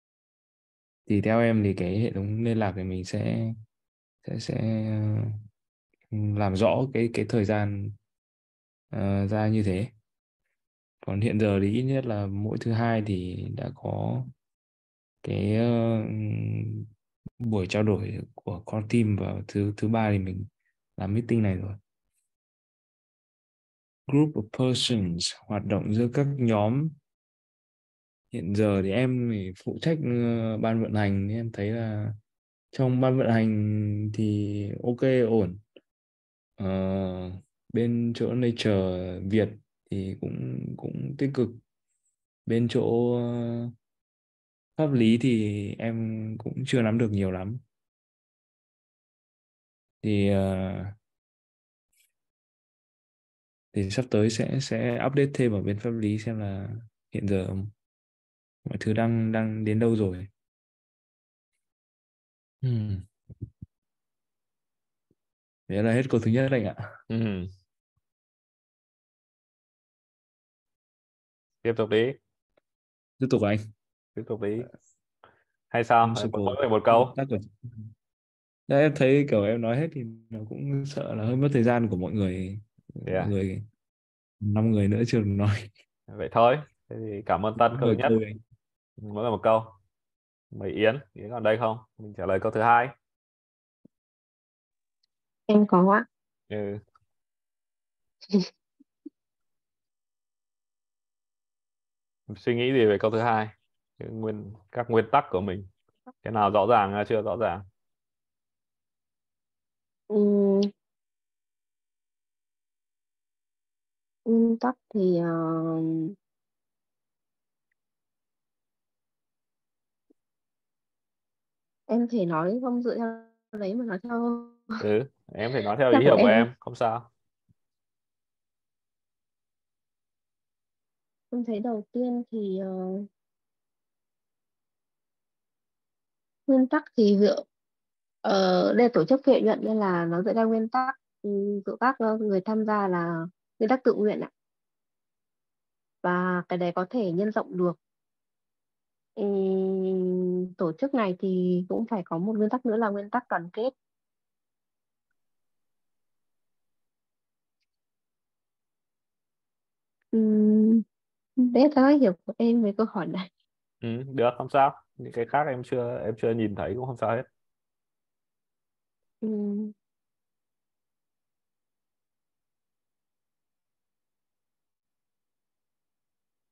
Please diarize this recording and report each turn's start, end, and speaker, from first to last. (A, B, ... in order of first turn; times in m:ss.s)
0:01.1-0:03.5 A
0:04.2-0:05.3 A
0:06.1-0:08.0 A
0:08.9-0:09.9 A
0:11.0-0:14.3 A
0:15.2-0:16.9 A
0:17.4-0:21.8 A
0:24.1-0:27.0 A
0:28.3-0:32.1 A
0:32.7-0:35.6 A
0:36.6-0:41.6 A
0:42.4-0:43.7 A
0:44.8-0:47.6 A
0:50.0-0:50.9 A
0:53.7-0:57.7 A
0:58.6-1:00.3 A
1:02.6-1:03.1 A
1:05.7-1:06.8 A
1:07.1-1:07.5 B
1:11.6-1:12.2 B
1:13.2-1:13.6 A
1:14.2-1:14.6 B
1:15.7-1:17.2 B
1:16.0-1:17.5 A
1:18.7-1:23.6 A
1:23.0-1:23.3 B
1:24.4-1:25.7 A
1:26.1-1:28.2 B
1:27.7-1:28.4 A
1:29.0-1:29.8 B
1:30.5-1:32.9 B
1:35.5-1:36.0 C
1:36.5-1:36.8 B
1:42.3-1:45.7 B
1:46.2-1:47.6 B
1:50.1-1:50.7 C
1:54.2-1:56.1 C
2:01.9-2:04.7 C
2:04.8-2:07.1 B
2:05.9-2:06.5 C
2:11.3-2:13.1 C
2:16.5-2:17.4 C
2:18.2-2:24.3 C
2:26.0-2:27.8 C
2:29.2-2:33.7 C
2:40.1-2:40.8 C
2:41.4-2:43.2 C
2:43.8-2:47.2 B
2:49.2-2:49.7 C